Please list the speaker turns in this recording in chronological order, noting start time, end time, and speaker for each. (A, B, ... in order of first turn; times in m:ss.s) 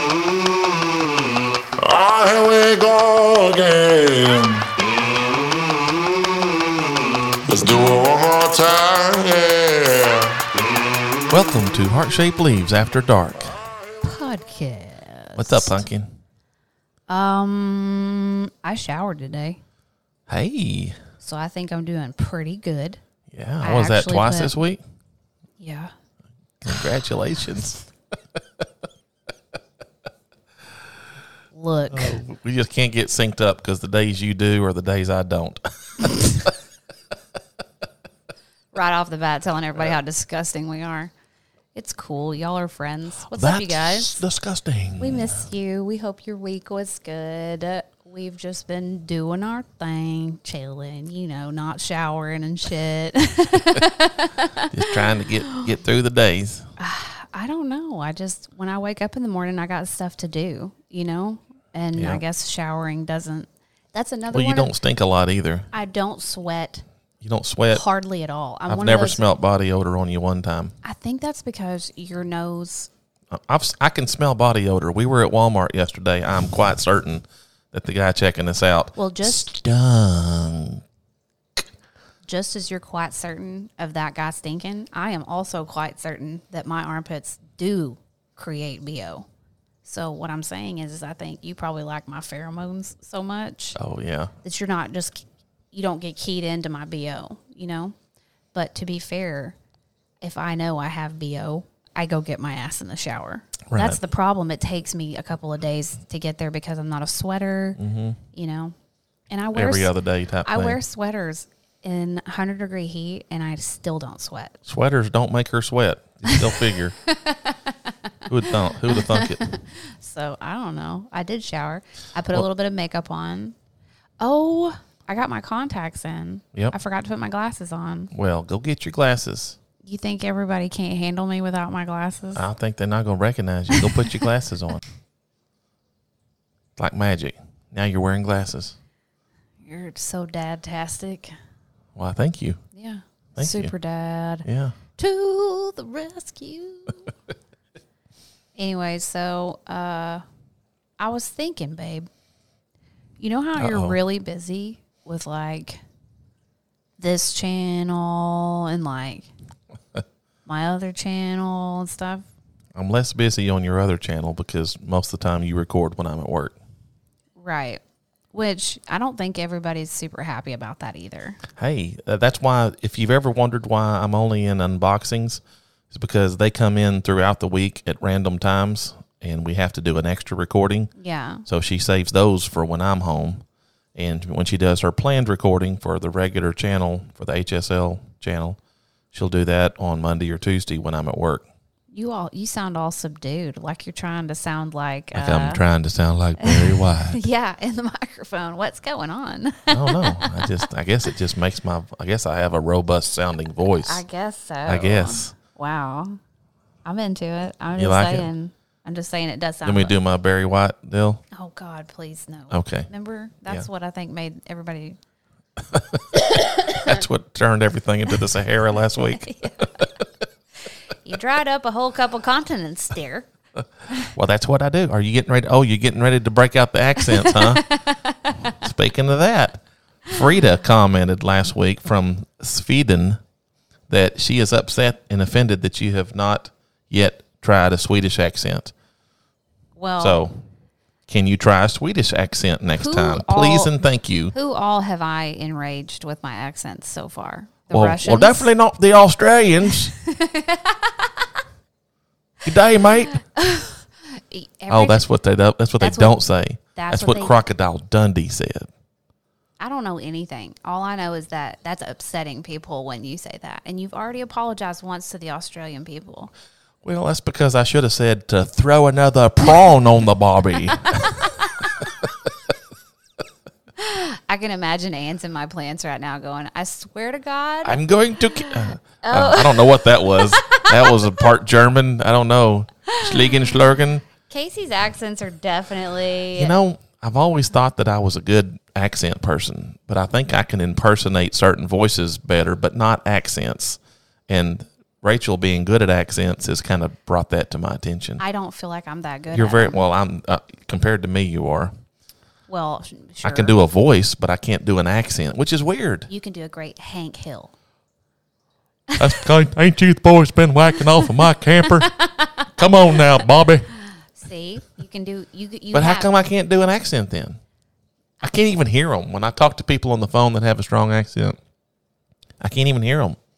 0:01.8-0:04.8 A
0:07.5-0:10.4 A
0:11.3-0:13.6 B
0:14.0-0:15.8 C
0:15.4-0:16.2 B
0:17.1-0:19.6 C
0:20.3-0:21.0 B
0:21.2-0:23.0 C
0:23.3-0:24.8 B
0:23.6-0:24.6 C
0:25.6-0:25.9 C
0:26.6-0:27.8 B
0:31.5-0:32.2 C
0:31.9-0:36.5 B
0:38.7-0:41.1 C
0:41.8-0:44.2 C
0:43.3-0:45.4 B
0:45.0-0:54.7 C
0:54.7-0:56.7 B
0:56.8-1:04.7 C
1:02.0-1:02.2 B
1:04.3-1:05.7 B
1:05.7-1:06.8 C
1:07.2-1:07.8 B
1:07.7-1:09.2 C
1:08.7-1:10.8 B
1:10.8-1:12.9 C
1:13.3-1:20.8 B
1:19.0-1:19.5 C
1:22.3-1:29.3 C
1:29.8-1:33.8 C
1:33.8-1:34.3 B
1:34.4-1:38.0 C
1:38.5-1:39.6 C
1:40.2-1:47.8 C
1:43.7-1:44.0 B
1:47.8-1:48.2 B
1:48.3-1:48.8 C
1:49.3-1:49.9 C
1:49.6-1:50.8 B
1:50.4-1:54.6 C
1:54.7-1:57.0 B
1:56.3-1:57.9 C
1:58.3-1:59.4 B
1:58.9-2:03.6 C
2:04.2-2:08.1 C
2:08.1-2:09.6 B
2:09.8-2:12.4 C
2:12.4-2:14.8 B
2:13.8-2:14.0 C
2:16.8-2:18.8 B
2:19.6-2:21.3 C
2:22.0-2:22.6 B
2:22.8-2:24.5 C
2:23.4-2:23.7 B
2:24.4-2:24.8 B
2:25.0-2:27.1 C
2:28.6-2:30.2 C
2:31.0-2:32.1 C
2:33.2-2:35.8 C
2:33.6-2:34.0 B
2:37.0-2:39.3 C
2:40.5-2:42.2 C
2:42.8-2:46.6 B
2:47.4-2:47.8 C
2:48.3-2:51.4 C
2:51.6-3:00.9 B
3:01.0-3:01.4 C
3:01.5-3:03.4 B
3:04.0-3:08.6 B
3:09.1-3:11.5 B
3:11.9-3:15.6 C
3:15.1-3:17.2 B
3:16.4-3:20.7 C
3:19.7-3:24.0 B
3:23.8-3:26.2 C
3:24.7-3:25.4 B
3:26.8-3:30.0 C
3:27.8-3:28.3 B
3:29.6-3:31.2 B
3:31.3-3:35.0 C
3:32.5-3:32.9 B
3:35.7-3:39.9 B
3:39.0-3:39.9 C
3:41.0-3:43.3 C
3:44.2-3:47.6 B
3:47.0-3:48.6 C
3:48.6-3:53.2 B
3:53.9-3:58.7 B
3:59.8-4:00.2 C
4:00.0-4:00.4 B
4:01.1-4:04.3 B
4:02.8-4:03.7 C
4:04.3-4:08.5 C
4:07.7-4:09.9 B
4:09.9-4:11.3 C
4:12.4-4:13.2 B
4:13.1-4:15.0 C
4:14.7-4:18.7 B
4:15.8-4:16.2 C
4:16.8-4:17.4 C
4:19.6-4:26.3 C
4:26.8-4:32.3 B
4:31.0-4:31.7 C
4:33.8-4:41.3 C
4:37.6-4:44.0 B
4:42.9-4:43.6 C
4:44.1-4:46.6 C
4:46.3-4:58.2 B
4:58.2-4:59.8 C
4:59.3-5:01.7 B
5:02.5-5:03.6 C
5:03.2-5:06.1 B
5:06.1-5:07.5 C
5:08.9-5:09.2 C
5:09.0-5:11.9 B
5:11.6-5:13.0 C
5:12.6-5:13.7 B
5:14.0-5:16.1 C
5:15.7-5:17.4 B
5:18.2-5:21.4 B
5:22.4-5:23.2 B